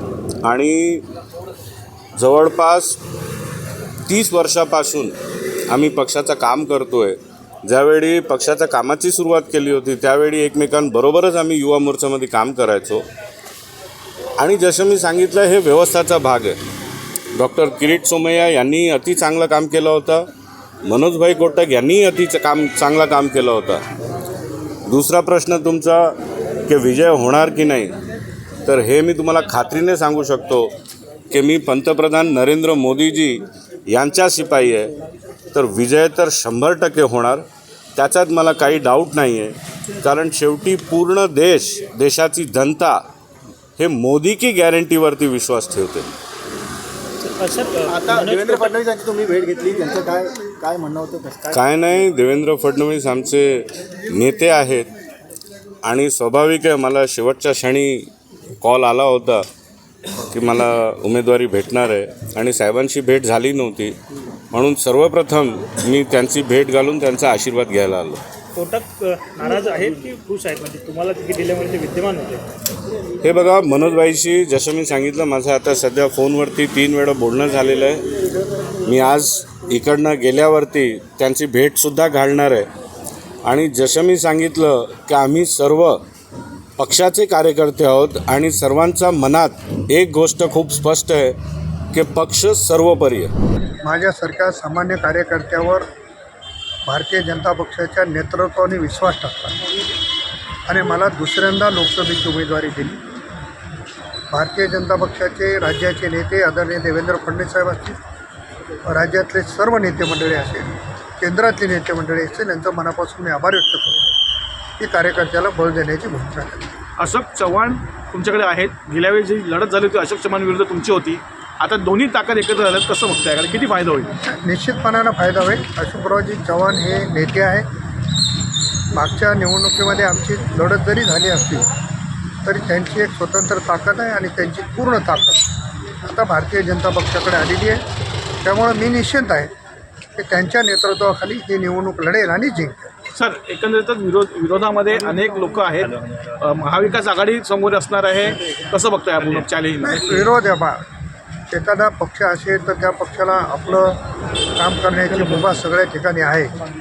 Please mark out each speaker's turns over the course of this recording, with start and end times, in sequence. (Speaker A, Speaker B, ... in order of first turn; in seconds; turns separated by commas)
Speaker A: 0.4-1.0, Speaker A: 2.1-3.0, Speaker A: 4.1-5.1, Speaker A: 5.7-13.0, Speaker A: 14.4-16.6, Speaker A: 17.3-20.3, Speaker A: 20.8-23.8, Speaker A: 24.9-27.9, Speaker A: 28.6-30.7, Speaker A: 31.3-34.9, Speaker A: 35.5-43.0, Speaker A: 43.8-46.0, Speaker B: 47.2-48.7, Speaker C: 47.9-51.6, Speaker A: 51.5-54.9, Speaker A: 55.8-58.1, Speaker A: 58.6-59.4, Speaker A: 60.3-64.0, Speaker A: 64.5-68.2, Speaker B: 68.5-72.4, Speaker A: 73.2-78.1, Speaker A: 78.8-82.7, Speaker A: 83.4-86.0, Speaker A: 86.8-91.4, Speaker A: 91.9-93.3, Speaker D: 93.8-95.8, Speaker D: 96.8-99.6, Speaker D: 100.7-103.0, Speaker D: 104.3-108.0, Speaker D: 108.8-114.1, Speaker D: 114.8-116.7, Speaker E: 117.0-124.1, Speaker D: 124.2-127.7, Speaker D: 128.9-131.7, Speaker D: 132.4-135.4, Speaker D: 136.0-137.8, Speaker D: 138.4-139.5, Speaker D: 140.2-142.9, Speaker E: 143.1-150.3, Speaker D: 149.8-150.8, Speaker D: 151.5-154.0, Speaker D: 154.6-156.5